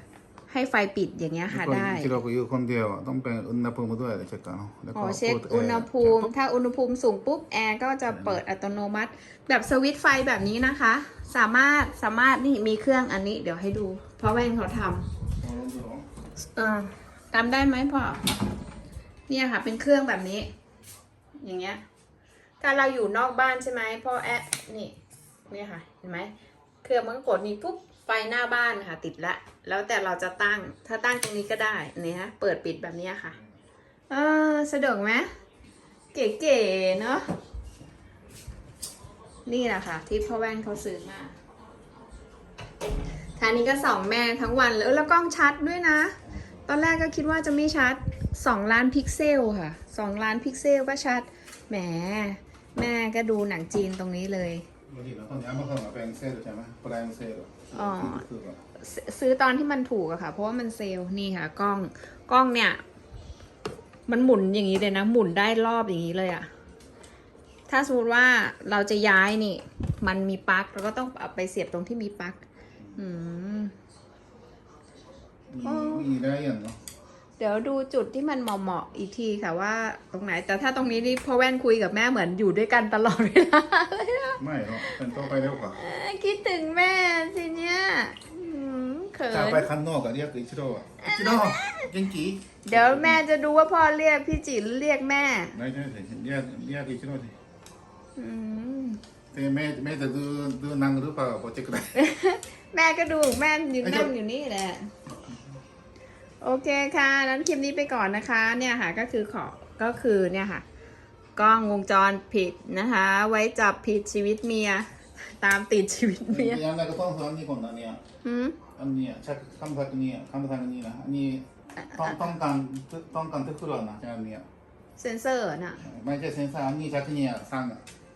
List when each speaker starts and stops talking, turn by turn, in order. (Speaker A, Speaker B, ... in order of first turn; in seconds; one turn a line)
Speaker A: 0.5-2.2
Speaker B: 1.5-6.3
Speaker A: 4.9-15.1
Speaker B: 8.1-8.4
Speaker B: 15.4-16.1
Speaker A: 16.5-18.2
Speaker A: 19.3-20.5
Speaker A: 21.4-21.8
Speaker A: 22.6-25.0
Speaker A: 25.5-33.4
Speaker A: 34.1-35.3
Speaker A: 36.1-37.3
Speaker A: 39.5-41.3
Speaker A: 43.4-54.6
Speaker B: 54.9-58.6
Speaker A: 57.7-62.8
Speaker A: 64.1-66.5
Speaker A: 67.7-72.4
Speaker A: 73.0-73.7
Speaker B: 75.5-76.8
Speaker A: 75.6-76.1
Speaker A: 77.4-89.7
Speaker B: 84.4-85.8
Speaker B: 89.3-93.2
Speaker A: 91.0-91.9
Speaker A: 92.6-95.5
Speaker B: 95.5-97.3
Speaker A: 98.2-99.0
Speaker B: 99.3-102.0
Speaker A: 101.9-104.9
Speaker B: 103.8-104.1
Speaker A: 106.4-110.6
Speaker A: 111.3-116.6
Speaker B: 116.3-118.0
Speaker A: 118.2-118.6
Speaker B: 118.7-124.5
Speaker A: 121.8-122.2
Speaker A: 125.0-125.8
Speaker B: 125.8-127.8